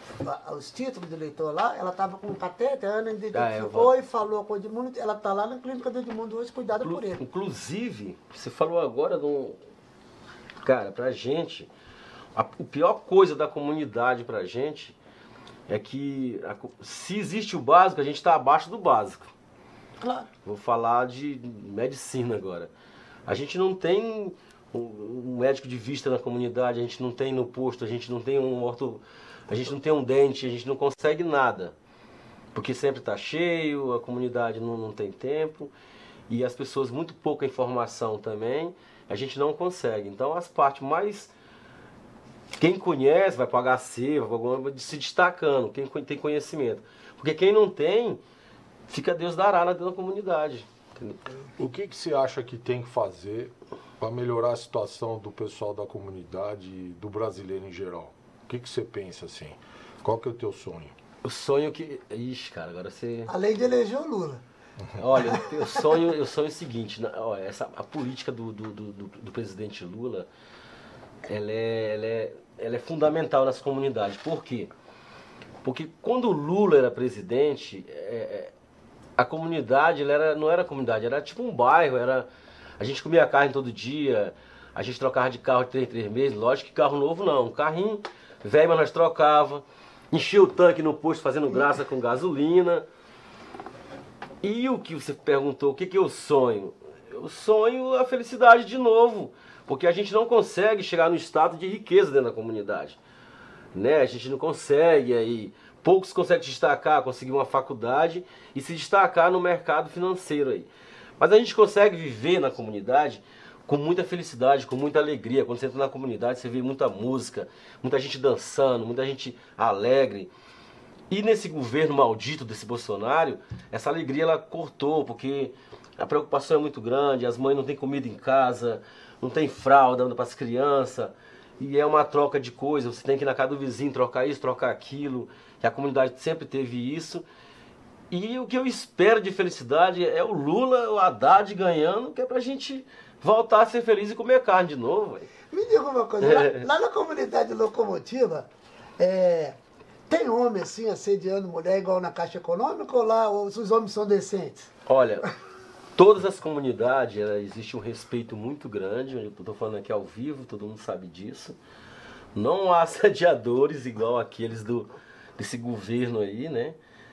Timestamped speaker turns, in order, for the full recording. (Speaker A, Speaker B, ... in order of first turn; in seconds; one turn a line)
Speaker A: 0.2-7.2
Speaker B: 3.3-3.9
Speaker B: 6.8-9.6
Speaker B: 10.6-11.7
Speaker B: 12.3-14.9
Speaker B: 15.7-19.3
Speaker A: 20.0-20.3
Speaker B: 20.4-22.7
Speaker B: 23.3-31.7
Speaker B: 32.5-35.7
Speaker B: 36.3-41.3
Speaker B: 42.6-48.2
Speaker B: 48.9-51.2
Speaker C: 51.6-60.9
Speaker B: 61.2-63.3
Speaker A: 63.3-64.4
Speaker B: 65.0-70.3
Speaker B: 71.2-74.7
Speaker B: 75.6-78.5
Speaker B: 79.2-82.3
Speaker B: 82.8-92.8
Speaker B: 94.4-103.0
Speaker B: 103.7-110.7
Speaker B: 111.2-120.3
Speaker B: 121.1-137.2
Speaker B: 138.1-145.3
Speaker A: 145.5-148.5
Speaker B: 146.2-146.7
Speaker A: 149.0-149.6
Speaker A: 150.1-154.7
Speaker B: 154.9-155.3
Speaker B: 155.9-161.6
Speaker B: 162.3-166.8